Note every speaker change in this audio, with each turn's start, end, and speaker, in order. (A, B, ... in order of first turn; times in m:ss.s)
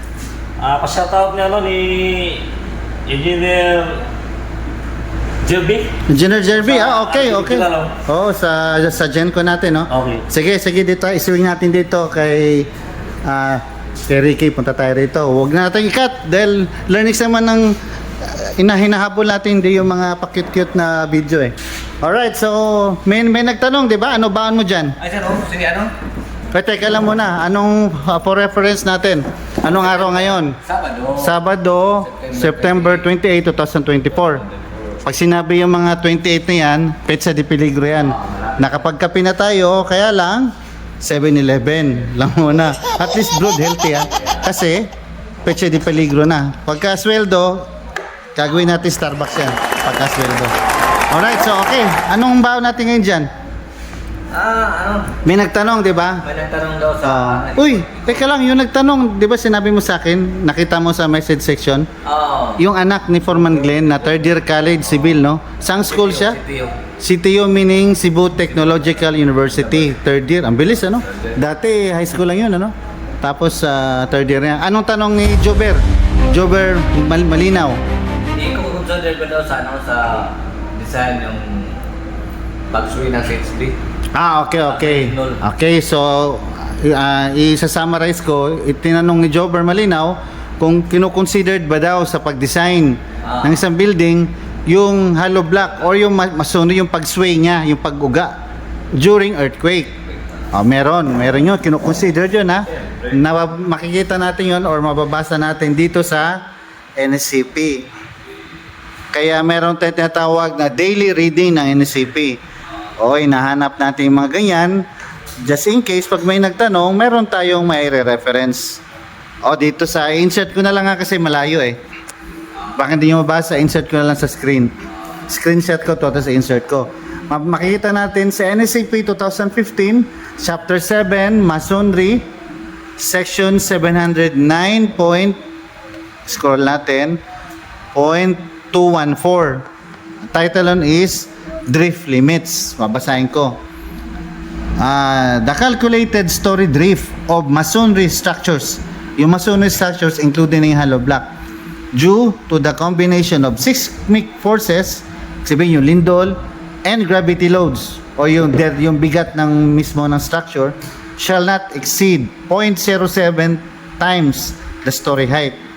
0:00.6-0:02.4 A
0:03.1-0:04.0 A
0:05.4-0:05.9 A
0:06.1-0:12.7 B
0:06.6-0:07.9 A
0:09.9-0:10.2 A
0:13.2-0:25.0 B
0:25.0-0:25.9 C
0:26.5-0:30.6 B
0:29.7-0:31.3 C
0:31.1-0:34.4 B
0:32.1-0:33.0 C
0:35.0-0:44.9 B
0:38.1-0:38.5 C
0:45.4-0:47.7 B
0:48.3-0:50.5 B
0:51.1-0:53.3 B
0:54.3-0:55.2 C
0:55.2-0:56.2 B
0:56.2-0:58.2 C
0:57.0-1:01.9 B
1:02.0-1:02.6 C
1:02.6-1:06.4 B
1:05.9-1:06.8 C
1:07.0-1:17.8 B
1:18.3-1:21.8 C
1:22.7-1:23.8 C
1:24.1-1:38.3 B
1:24.7-1:25.4 C
1:33.2-1:33.6 C
1:38.9-1:40.0 B
1:40.5-1:46.4 B
1:47.0-1:47.9 B
1:49.1-1:52.4 B
1:53.0-1:54.8 B
1:55.4-1:58.8 B
1:59.4-2:01.8 B
2:02.7-2:04.7 B
2:05.3-2:12.2 B
2:13.0-2:15.4 B
2:16.3-2:17.2 B
2:17.9-2:19.6 B
2:20.3-2:23.6 B
2:24.8-2:31.2 B
2:31.9-2:45.6 B